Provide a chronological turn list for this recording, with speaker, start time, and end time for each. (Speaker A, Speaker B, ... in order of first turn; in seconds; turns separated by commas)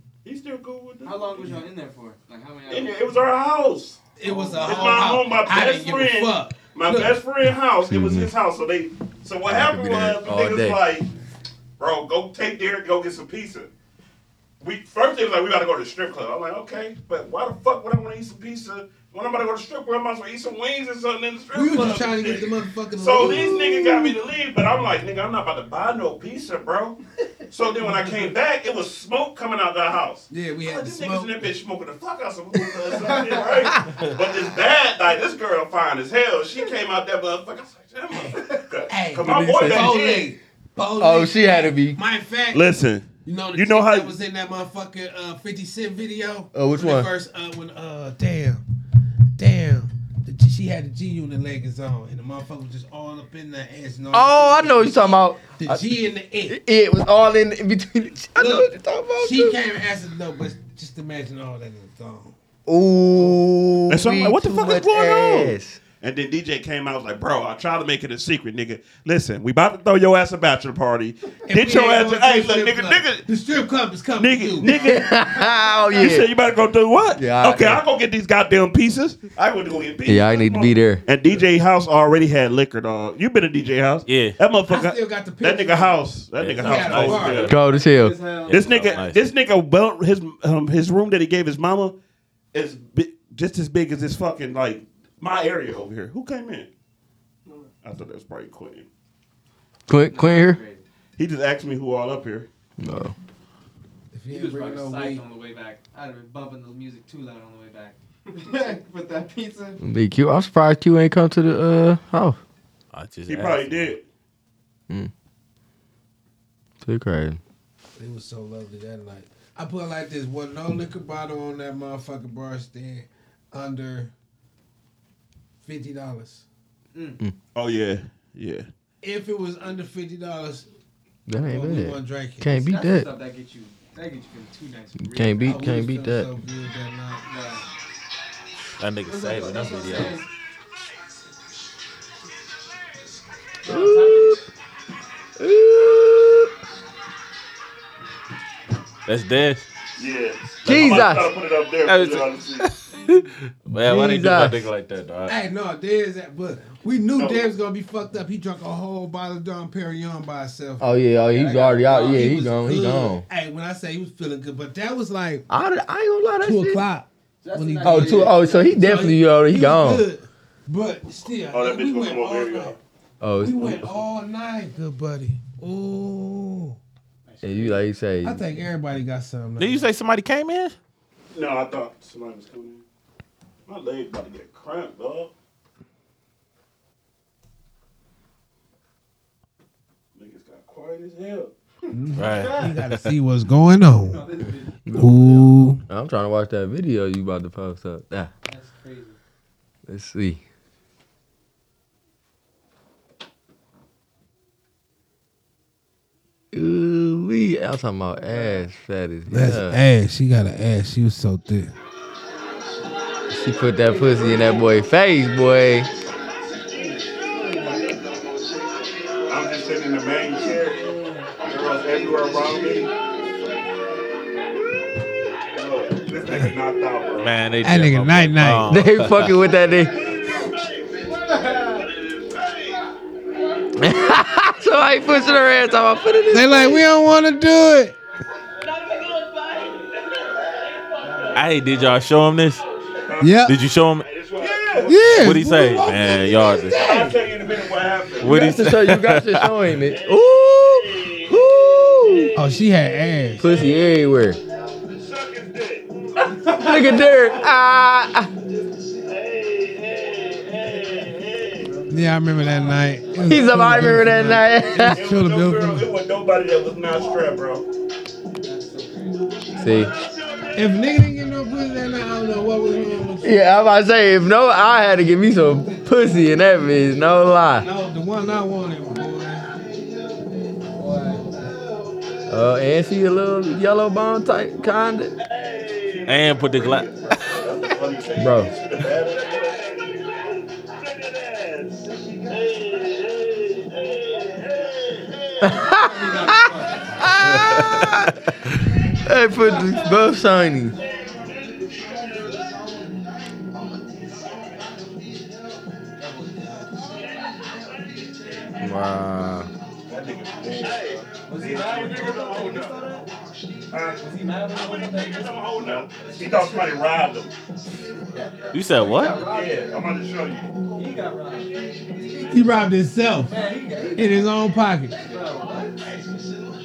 Speaker A: 0.2-1.6, Speaker B: 1.0-3.0, Speaker A: 2.7-11.1, Speaker C: 4.2-7.2, Speaker B: 4.3-5.1, Speaker D: 7.9-8.3, Speaker D: 9.5-10.8, Speaker A: 11.8-13.7, Speaker A: 14.6-27.0, Speaker C: 21.5-24.1, Speaker A: 27.5-40.4, Speaker C: 30.3-31.4, Speaker C: 33.6-34.0, Speaker C: 38.9-42.6, Speaker D: 39.5-40.0, Speaker D: 41.0-42.0, Speaker A: 42.5-44.1, Speaker C: 43.2-48.6, Speaker D: 46.5-47.1, Speaker C: 49.4-56.6, Speaker D: 54.1-55.9, Speaker D: 56.5-59.6, Speaker C: 58.4-62.3, Speaker D: 62.7-65.8, Speaker A: 63.9-73.3, Speaker C: 71.5-74.7, Speaker A: 74.2-75.1, Speaker D: 74.7-76.3, Speaker A: 75.9-87.5, Speaker D: 77.2-77.8, Speaker D: 80.1-81.0, Speaker E: 84.1-84.4, Speaker C: 84.7-86.0, Speaker E: 86.4-87.6, Speaker C: 86.6-87.5, Speaker B: 87.5-89.1, Speaker D: 87.5-88.2, Speaker E: 88.5-89.2, Speaker A: 88.5-92.0, Speaker A: 92.5-96.7, Speaker A: 97.8-98.9, Speaker D: 99.9-100.6, Speaker B: 100.1-100.8, Speaker A: 101.2-102.5, Speaker D: 102.8-103.1, Speaker C: 104.1-105.2, Speaker B: 104.3-109.8, Speaker D: 109.8-112.4, Speaker E: 112.9-113.9, Speaker A: 113.3-114.0, Speaker D: 116.8-117.4, Speaker C: 118.0-124.1, Speaker C: 125.6-126.4, Speaker B: 126.9-127.2, Speaker A: 127.5-128.7, Speaker C: 129.0-130.7, Speaker D: 131.3-133.1, Speaker C: 131.4-132.5, Speaker B: 132.5-135.7, Speaker D: 135.0-136.3, Speaker C: 135.4-137.2, Speaker B: 137.2-137.7, Speaker E: 138.8-140.2, Speaker B: 139.1-140.3, Speaker B: 143.6-144.4, Speaker D: 143.7-144.4, Speaker D: 145.4-146.5, Speaker E: 149.1-149.7, Speaker A: 150.0-152.7, Speaker D: 150.7-151.3, Speaker E: 151.9-153.2, Speaker E: 153.7-155.4, Speaker D: 153.7-154.6, Speaker C: 155.3-160.8, Speaker A: 157.2-157.5, Speaker D: 160.8-163.2, Speaker B: 161.3-162.4, Speaker C: 161.9-165.5, Speaker D: 165.5-166.8, Speaker C: 166.4-172.8, Speaker B: 167.4-168.8, Speaker D: 167.8-170.1, Speaker A: 171.5-172.8, Speaker D: 173.2-173.8, Speaker C: 173.4-176.8, Speaker B: 177.3-177.9, Speaker D: 177.4-178.4, Speaker C: 178.2-179.9, Speaker E: 179.6-180.7, Speaker A: 181.3-182.8, Speaker A: 183.7-185.3, Speaker A: 190.2-191.5, Speaker C: 191.9-194.2, Speaker E: 192.2-193.1, Speaker B: 192.3-192.8, Speaker B: 194.0-194.9, Speaker D: 194.9-198.3, Speaker C: 194.9-195.8, Speaker B: 198.5-199.2, Speaker D: 199.9-200.4, Speaker D: 206.5-209.8, Speaker B: 208.3-208.7, Speaker C: 209.3-211.7, Speaker D: 213.3-215.9, Speaker B: 213.9-214.8, Speaker B: 216.7-218.1, Speaker A: 219.2-222.9, Speaker B: 220.8-221.4, Speaker A: 225.5-227.3, Speaker E: 227.2-229.3, Speaker C: 227.6-228.7, Speaker D: 228.7-230.1, Speaker A: 230.1-231.0, Speaker B: 231.3-231.8, Speaker A: 231.7-232.8, Speaker D: 233.8-236.8, Speaker C: 236.3-238.0, Speaker A: 239.2-239.8, Speaker B: 241.0-241.4, Speaker E: 241.3-242.6, Speaker A: 243.0-243.5, Speaker C: 243.2-243.5, Speaker E: 243.5-244.1, Speaker A: 244.4-245.0, Speaker C: 244.9-247.2, Speaker E: 245.1-246.9, Speaker A: 246.7-248.7, Speaker E: 248.2-249.6, Speaker D: 248.2-252.4, Speaker A: 250.4-251.4, Speaker A: 252.0-252.3, Speaker C: 252.3-253.5, Speaker A: 253.4-253.7, Speaker D: 253.4-254.4, Speaker A: 254.9-257.3, Speaker D: 256.4-258.3, Speaker A: 259.1-261.7, Speaker B: 261.6-263.8, Speaker C: 261.9-265.9, Speaker D: 263.2-265.1, Speaker A: 264.8-267.6, Speaker B: 268.4-269.5, Speaker D: 269.6-269.9, Speaker A: 269.9-270.9, Speaker C: 270.6-273.4, Speaker D: 273.2-277.7, Speaker C: 277.6-279.5, Speaker B: 280.8-281.3, Speaker D: 282.3-285.1, Speaker A: 285.3-290.0, Speaker E: 286.1-286.9, Speaker D: 288.2-288.5, Speaker A: 291.1-294.9, Speaker D: 295.4-300.8, Speaker B: 295.6-297.7, Speaker B: 305.9-307.0, Speaker D: 308.6-309.5, Speaker A: 309.9-312.8, Speaker B: 311.2-313.1, Speaker A: 313.7-317.3, Speaker B: 314.0-316.1, Speaker B: 318.1-319.7, Speaker E: 318.5-319.3, Speaker A: 319.2-320.5, Speaker B: 320.7-322.3, Speaker C: 322.3-323.4, Speaker B: 323.3-324.2, Speaker C: 323.9-325.0, Speaker B: 324.9-325.9